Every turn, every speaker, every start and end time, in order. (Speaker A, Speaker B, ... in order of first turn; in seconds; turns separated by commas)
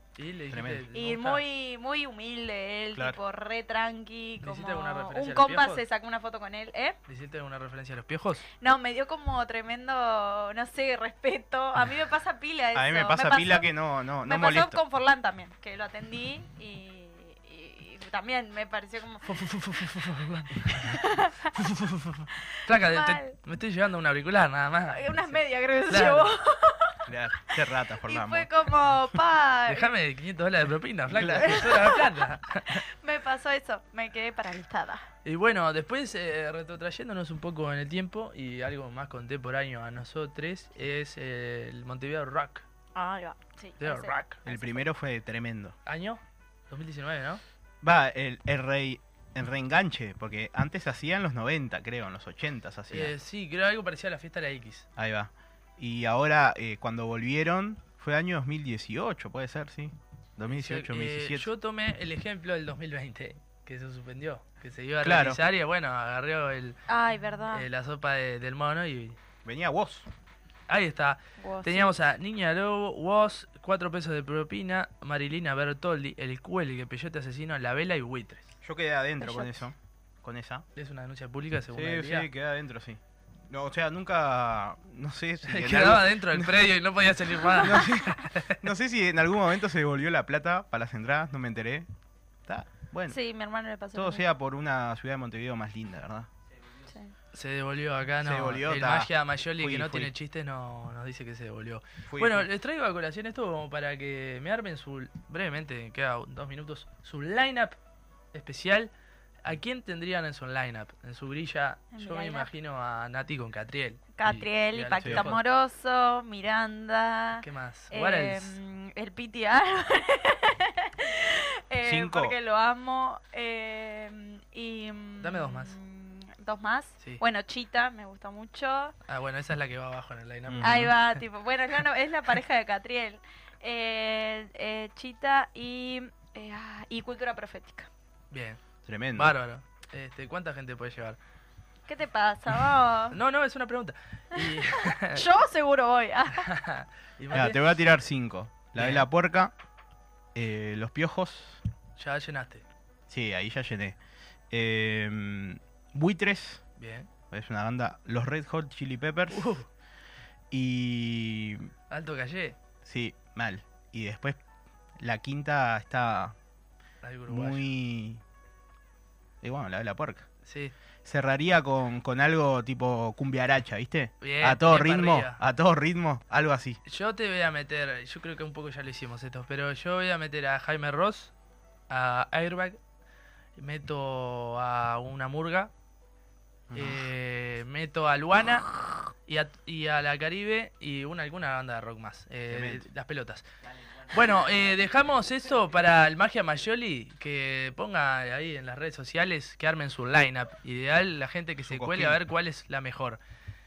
Speaker A: 0.2-1.4, Speaker B: 0.5-0.9, Speaker C: 0.9-7.0, Speaker A: 4.4-5.8, Speaker A: 7.1-8.5, Speaker C: 8.6-13.7, Speaker B: 12.8-14.8, Speaker C: 14.2-19.5, Speaker A: 19.2-21.0, Speaker C: 20.6-21.6, Speaker A: 21.6-26.3, Speaker C: 22.7-23.4, Speaker C: 24.9-29.9, Speaker B: 27.1-28.5, Speaker A: 29.7-32.8, Speaker B: 31.1-31.8, Speaker C: 31.3-35.1, Speaker A: 35.2-42.6, Speaker C: 43.0-44.8, Speaker A: 43.8-44.4, Speaker B: 44.5-45.8, Speaker A: 45.9-47.4, Speaker B: 47.8-53.1, Speaker A: 52.9-54.9, Speaker B: 55.0-61.5, Speaker A: 60.5-66.8, Speaker B: 65.0-65.4, Speaker C: 66.9-67.7, Speaker A: 67.5-69.2, Speaker B: 69.5-70.1, Speaker A: 70.7-78.5, Speaker C: 71.4-72.0, Speaker B: 78.6-80.7, Speaker C: 79.2-79.6, Speaker A: 80.8-82.3, Speaker B: 81.7-86.7, Speaker A: 85.4-88.6, Speaker C: 87.6-88.1, Speaker B: 87.6-91.9, Speaker B: 92.5-93.2, Speaker C: 93.1-94.2, Speaker B: 93.9-96.3, Speaker C: 96.8-97.2, Speaker A: 97.3-107.8, Speaker B: 98.2-100.1, Speaker B: 102.1-102.5, Speaker A: 108.3-108.9, Speaker A: 109.4-115.4, Speaker C: 111.9-112.5, Speaker C: 114.2-128.9, Speaker B: 115.0-115.3, Speaker A: 117.4-118.6, Speaker B: 121.8-122.3, Speaker A: 125.2-125.8, Speaker A: 129.1-131.1, Speaker B: 130.5-130.9, Speaker C: 130.6-137.9, Speaker A: 138.3-138.6, Speaker B: 138.9-139.4, Speaker A: 139.1-141.2, Speaker C: 141.9-143.2, Speaker A: 143.1-145.3, Speaker C: 144.3-146.5, Speaker A: 146.4-147.7, Speaker B: 147.3-149.5, Speaker A: 148.8-149.1, Speaker B: 150.3-151.6, Speaker A: 152.0-152.7, Speaker B: 153.1-154.0, Speaker B: 154.5-156.6, Speaker A: 156.8-157.1, Speaker B: 157.3-159.6, Speaker A: 159.3-159.7, Speaker B: 160.5-161.7, Speaker A: 161.9-162.6, Speaker B: 162.8-164.4, Speaker B: 165.0-166.3, Speaker A: 167.0-167.7, Speaker B: 167.3-168.2, Speaker B: 169.4-170.3, Speaker A: 170.4-170.7, Speaker B: 171.0-176.8, Speaker A: 174.2-175.4, Speaker A: 176.8-181.3, Speaker A: 181.9-182.8, Speaker A: 183.6-185.7, Speaker B: 186.7-187.1, Speaker A: 186.7-193.5, Speaker B: 192.5-192.9, Speaker A: 194.1-203.2, Speaker B: 201.7-202.2